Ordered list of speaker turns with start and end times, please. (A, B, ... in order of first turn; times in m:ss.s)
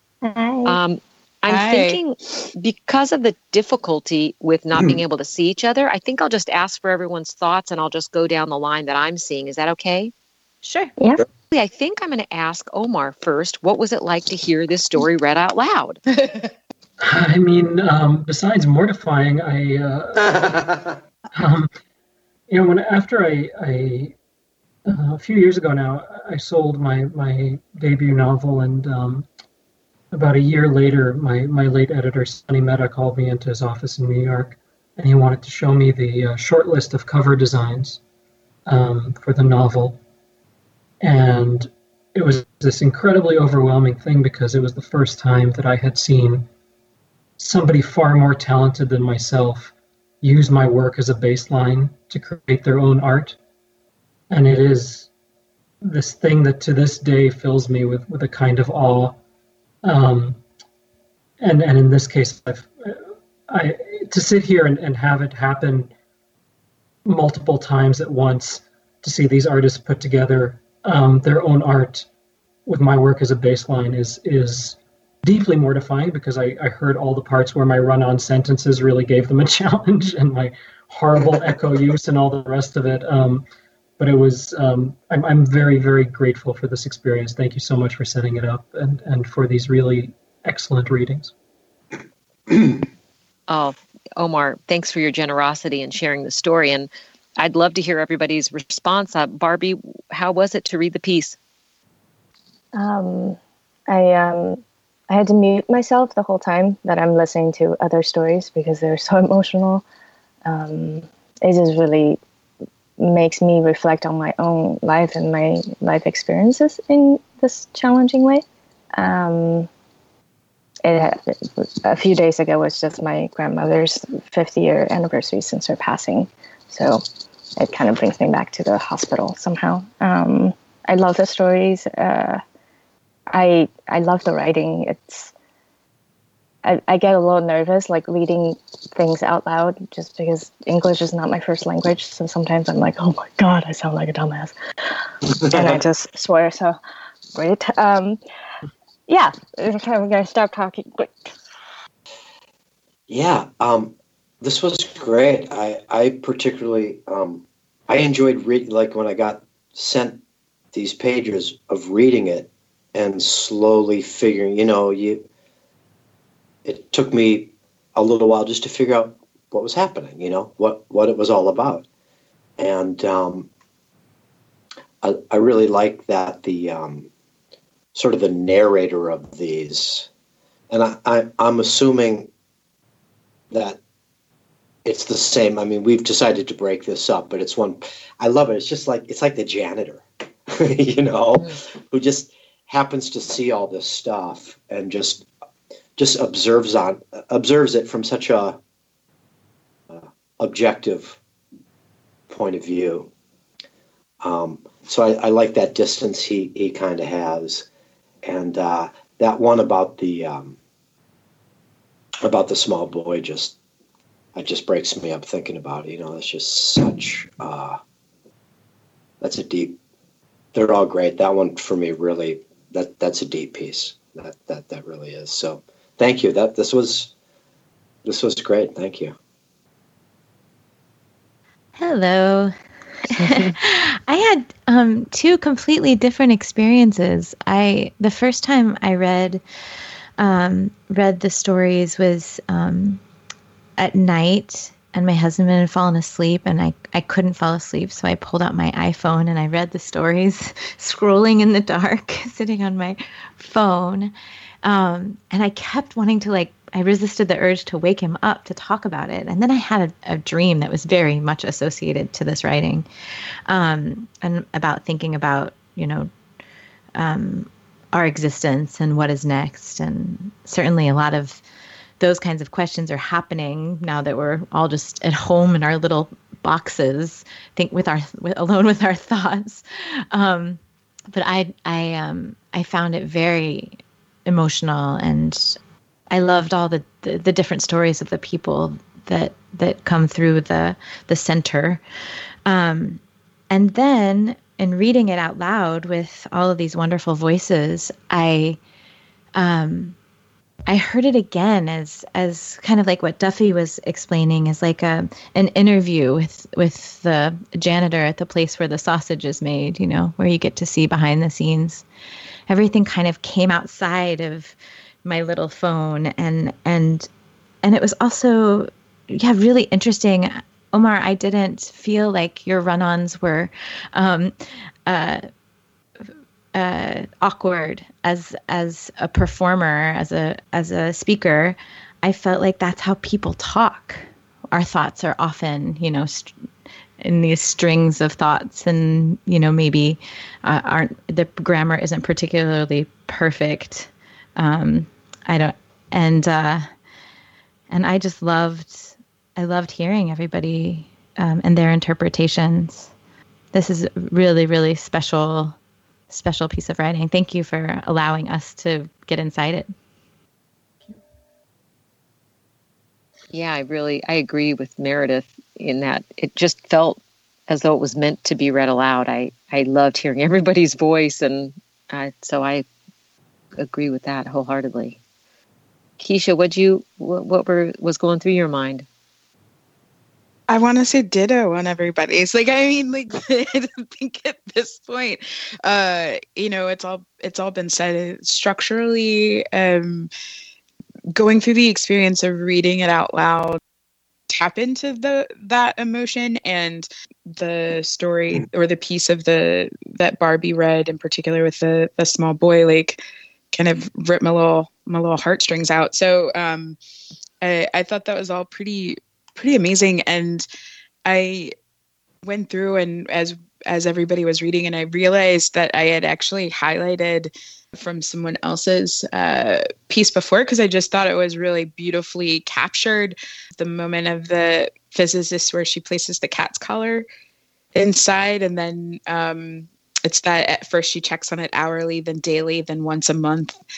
0:00.2-0:00.8 A
0:00.6-0:10.1 B
0:01.5-0:02.0 C
0:10.6-0:10.9 D
0:11.0-0:11.2 A
0:11.5-0:16.0 B
0:16.1-0:16.5 C
0:17.0-0:20.8 E
0:21.3-0:21.7 E
0:22.5-0:24.1 E
0:24.8-0:29.2 E
0:30.1-0:38.0 E
0:38.7-0:40.0 E
0:41.0-0:46.4 E
0:47.4-0:53.4 E
0:54.3-0:55.1 E
0:55.8-0:59.2 E
0:59.8-1:00.4 E
1:01.4-1:05.9 E
1:07.0-1:12.1 E
1:12.6-1:23.4 E
1:24.0-1:31.3 E
1:33.5-1:41.4 B
1:42.7-1:49.8 A
1:50.4-1:52.2 A
1:53.0-1:58.4 A
1:59.0-1:59.7 A
2:00.8-2:07.0 A
2:07.6-2:12.4 A
2:13.3-2:15.3 A
2:16.6-2:26.8 A
2:25.4-2:25.8 F
2:27.3-2:28.2 A
2:29.1-2:31.3 A
2:33.1-2:40.2 F
2:40.7-2:45.3 F
2:46.6-2:51.8 F
2:52.6-2:53.5 F
2:55.0-2:57.1 F
2:57.9-3:00.1 F
3:00.7-3:02.3 F
3:03.5-3:03.8 F
3:04.8-3:15.3 F
3:16.0-3:18.6 F
3:19.9-3:21.2 F
3:22.3-3:23.1 F
3:24.2-3:27.6 F
3:28.2-3:30.6 F
3:32.2-3:33.6 F
3:34.3-3:37.8 F
3:39.2-3:39.8 F
3:40.5-3:47.1 F
3:48.0-3:49.2 F
3:51.8-3:52.5 D
3:53.1-3:59.4 D
4:00.2-4:03.0 D
4:03.8-4:14.1 D
4:14.6-4:22.8 D
4:23.5-4:26.1 D
4:27.0-4:31.4 D
4:32.0-4:40.6 D
4:41.1-4:45.6 D
4:46.1-4:51.8 D
4:52.4-4:58.6 D
4:59.4-4:59.9 D
5:00.7-5:11.8 D
5:12.5-5:17.1 D
5:17.6-5:24.3 D
5:24.9-5:25.2 D
5:26.5-5:36.3 D
5:37.0-5:46.6 D
5:47.7-5:52.9 D
5:53.5-5:55.6 D
5:56.1-5:59.7 D
6:03.3-6:12.7 B
6:13.6-6:15.0 B
6:16.0-6:18.8 B
6:20.5-6:30.1 C
6:31.1-6:33.6 C
6:34.3-6:46.8 C
6:47.4-6:50.4 C
6:51.0-6:51.5 C
6:52.2-7:07.0 C
7:07.7-7:13.6 C